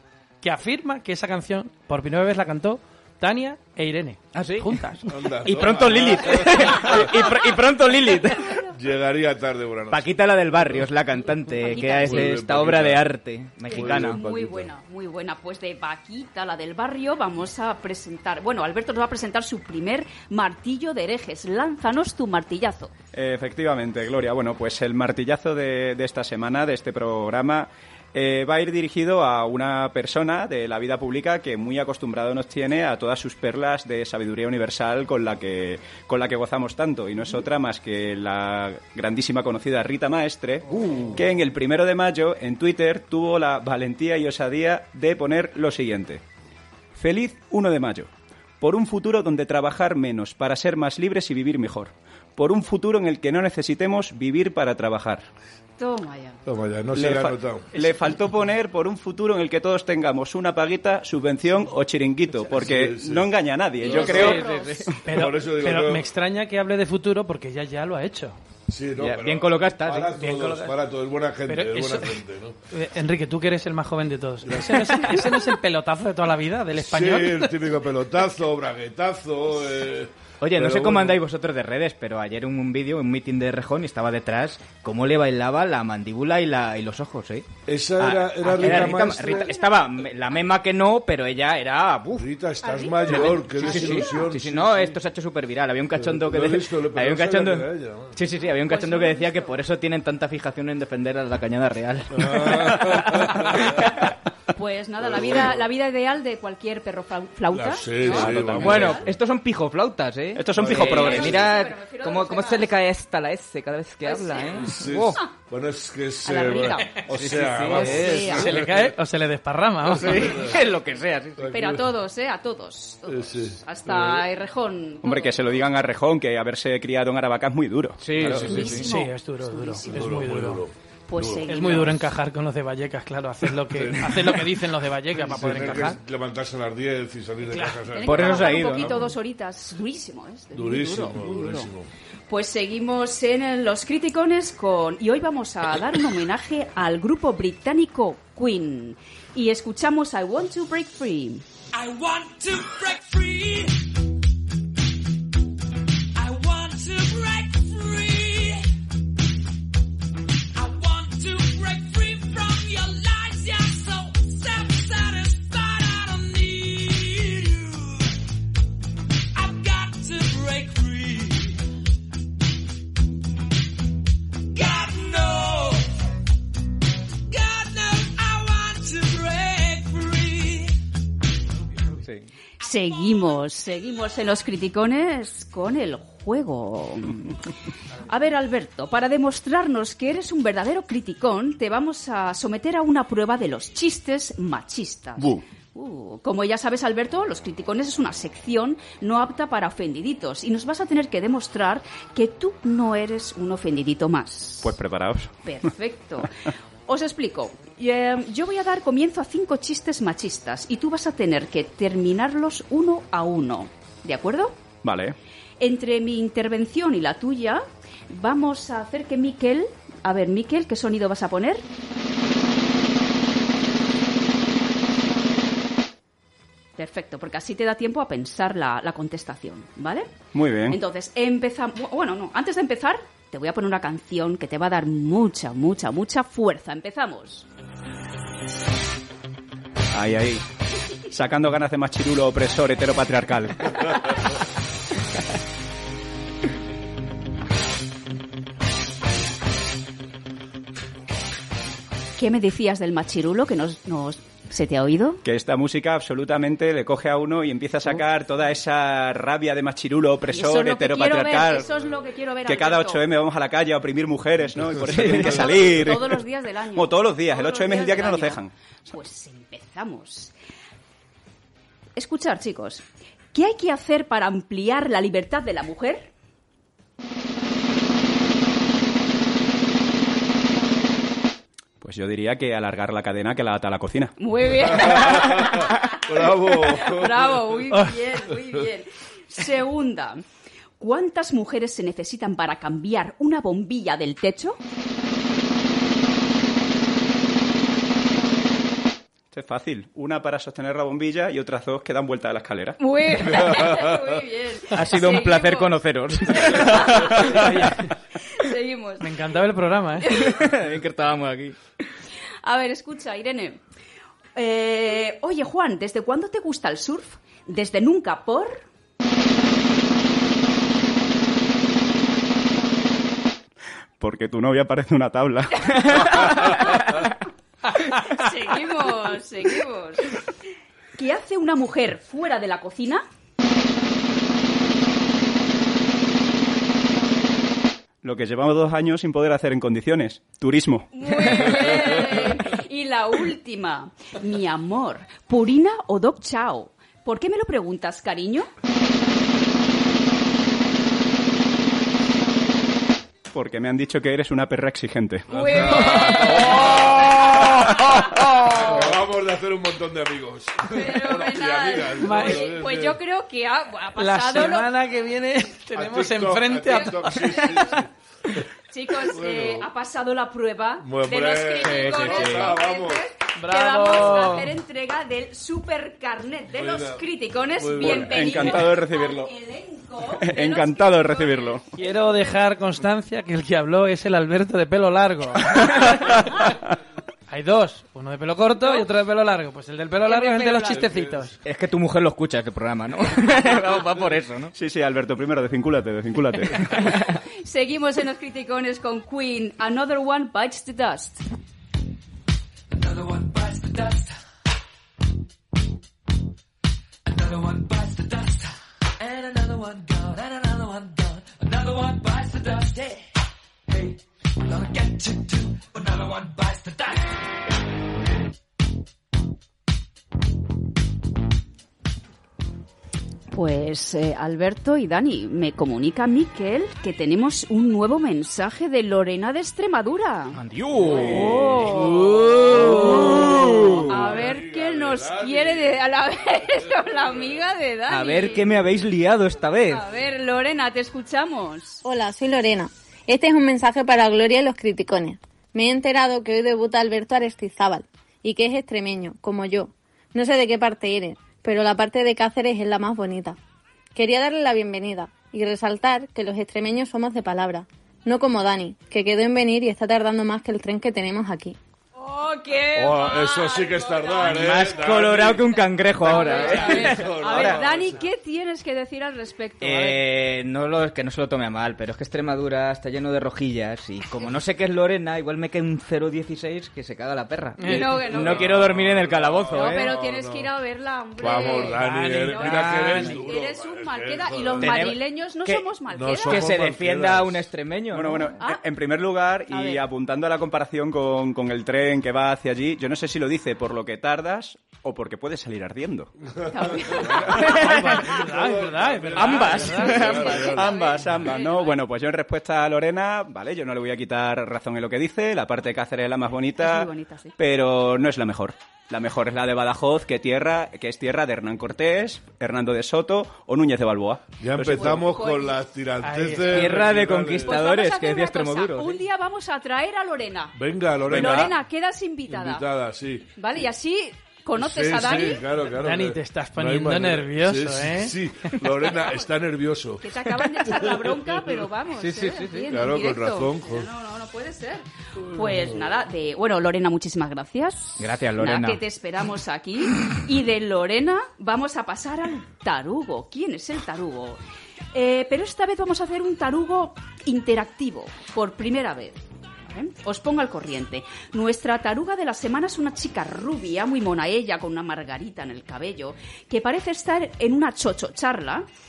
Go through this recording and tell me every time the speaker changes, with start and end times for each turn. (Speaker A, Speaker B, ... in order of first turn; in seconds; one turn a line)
Speaker A: 0.4-5.2
Speaker B: 4.3-4.8
Speaker C: 5.0-7.2
Speaker B: 5.4-8.6
Speaker D: 6.6-6.9
Speaker C: 8.7-10.9
Speaker B: 9.9-14.2
Speaker D: 11.6-12.4
Speaker C: 11.8-13.1
Speaker C: 13.7-14.7
Speaker D: 13.7-22.9
Speaker E: 23.1-46.2
Speaker E: 46.9-55.2
Speaker D: 55.8-56.4
Speaker C: 56.5-57.6
Speaker E: 56.9-65.0
Speaker C: 62.5-63.3
Speaker D: 63.8-64.9
Speaker B: 63.9-64.9
Speaker A: 65.0-68.4
Speaker C: 65.1-66.1
Speaker C: 68.7-72.5
Speaker B: 69.0-70.2
Speaker A: 70.1-70.8
Speaker A: 71.5-72.2
Speaker A: 72.7-77.6
Speaker C: 74.4-75.0
Speaker C: 76.8-81.2
Speaker B: 80.4-92.3
Speaker C: 87.7-89.5
Speaker D: 88.4-89.6
Speaker C: 92.1-95.0
Speaker D: 92.6-94.2
Speaker B: 93.1-104.1
Speaker C: 95.9-98.2
Speaker D: 98.5-99.6
Speaker C: 102.1-103.9
Speaker D: 104.5-109.1
Speaker C: 105.0-105.7
Speaker C: 107.5-109.1
Speaker B: 108.0-115.2
Speaker E: 108.2-108.6
Speaker E: 110.4-111.4
Speaker C: 110.5-111.5
Speaker D: 110.8-112.8
Speaker D: 114.0-115.3
Speaker C: 114.6-118.9
Speaker D: 116.2-117.0
Speaker B: 117.1-118.4
Speaker D: 117.7-118.5
Speaker A: 118.2-120.5
Speaker B: 119.8-121.4
Speaker C: 120.1-120.6
Speaker C: 121.4-121.9
Speaker D: 121.5-125.4
Speaker C: 123.1-124.2
Speaker E: 125.0-128.0
Speaker B: 128.0-128.9
Speaker C: 128.2-128.8
Speaker D: 128.2-130.1
Speaker A: 128.8-130.6
Speaker C: 129.9-132.0
Speaker D: 131.1-131.9
Speaker A: 131.5-136.0
Speaker C: 133.7-134.5
Speaker C: 135.2-139.1
Speaker A: 137.4-138.1
Speaker D: 137.9-141.7
Speaker B: 138.0-138.9
Speaker C: 140.5-141.9
Speaker D: 142.3-151.4
Speaker F: 151.7-153.9
Speaker F: 156.2-158.7
Speaker F: 160.6-168.2
Speaker F: 169.3-171.6
Speaker F: 174.6-176.0
Speaker F: 177.3-180.7
Speaker D: 182.6-187.3
Speaker D: 188.0-204.7
Speaker E: 195.2-195.4
Speaker E: 204.6-205.4
Speaker D: 205.4-206.3
Speaker D: 206.9-214.6
Speaker E: 214.8-215.2
Speaker D: 215.6-221.6
Speaker D: 226.8-230.1
Speaker E: 230.3-230.8
Speaker D: 230.7-237.4
Speaker E: 239.9-240.4
Speaker E: 241.1-244.1
Speaker D: 252.2-255.2
Speaker E: 255.2-261.7
Speaker D: 260.3-263.0
Speaker E: 262.4-266.2
Speaker B: 264.9-265.3
Speaker D: 265.1-270.3
Speaker E: 266.7-268.5
Speaker D: 271.9-272.8
Speaker D: 273.3-276.1
Speaker E: 281.8-284.1
Speaker D: 284.2-290.2
Speaker C: 284.9-287.3
Speaker D: 290.8-294.6
Speaker E: 299.3-302.8
Speaker D: 302.8-305.8
Speaker B: 304.7-307.5
Speaker D: 306.3-307.5
Speaker A: 307.3-307.9
Speaker D: 308.1-309.1
Speaker A: 309.0-310.1
Speaker B: 310.1-311.6
Speaker D: 312.4-313.6
Speaker D: 314.4-318.6
Speaker E: 324.0-326.3
Speaker D: 326.3-326.6
Speaker D: 327.9-330.2
Speaker D: 330.9-333.0
Speaker E: 338.0-340.9
Speaker D: 340.9-348.5
Speaker E: 353.3-355.4
Speaker C: 355.3-357.2
Speaker D: 355.3-358.5
Speaker A: 355.5-358.8
Speaker C: 358.5-363.0
Speaker D: 360.7-364.7
Speaker A: 362.0-362.5
Speaker A: 364.0-367.8
Speaker C: 365.8-367.9
Speaker D: 368.7-382.4
Speaker C: 369.1-369.7
Speaker C: 370.8-373.1
Speaker B: 371.6-372.5
Speaker A: 373.4-374.5
Speaker C: 376.5-378.6
Speaker E: 377.8-379.3
Speaker E: 380.1-381.6
Speaker A: 381.8-386.5
Speaker A: 387.3-391.4
Speaker D: 388.6-388.9
Speaker D: 390.0-390.9
Speaker C: 390.7-391.3
Speaker B: 391.4-394.5
Speaker E: 394.5-397.0
Speaker D: 397.4-401.2
Speaker F: 402.7-404.0
Speaker F: 407.1-408.5
Speaker F: 409.0-413.0
Speaker F: 413.7-417.0
Speaker D: 423.3-430.4
Speaker B: 430.3-433.9
Speaker C: 430.8-436.0
Speaker D: 430.9-438.5
Speaker C: 436.5-437.4
Speaker B: 437.9-439.8
Speaker D: 439.7-441.8
Speaker G: 441.8-453.4
Speaker G: 453.9-461.6
Speaker D: 462.0-470.1
Speaker C: 462.8-468.0
Speaker B: 464.3-467.1
Speaker E: 467.2-467.6
Speaker B: 469.6-479.9
Speaker A: 477.6-478.0
Speaker D: 477.6-478.5
Speaker C: 478.0-480.5
Speaker D: 479.5-486.5
Speaker C: 481.2-485.0
Speaker A: 481.4-483.2
Speaker B: 484.6-485.7
Speaker C: 485.9-487.5
Speaker B: 486.2-488.3
Speaker E: 487.9-496.1
Speaker D: 488.3-488.6
Speaker D: 489.5-489.8
Speaker C: 496.4-500.8
Speaker D: 496.5-497.6
Speaker B: 497.3-498.3
Speaker A: 497.7-500.1
Speaker B: 499.1-500.6
Speaker D: 499.8-501.8
Speaker E: 500.4-514.7
Speaker D: 506.6-507.4
Speaker C: 514.4-517.6
Speaker D: 514.7-515.6
Speaker A: 516.0-516.9
Speaker B: 516.5-519.0
Speaker D: 517.4-520.5
Speaker C: 520.5-521.5
Speaker D: 521.1-522.6
Speaker E: 521.1-521.5
Speaker C: 522.3-523.3
Speaker D: 523.4-525.4
Speaker C: 524.5-530.0
Speaker A: 525.7-528.7
Speaker D: 530.0-544.4
Speaker C: 530.7-531.2
Speaker B: 532.0-532.7
Speaker C: 532.7-533.9
Speaker B: 538.0-538.8
Speaker D: 544.9-558.6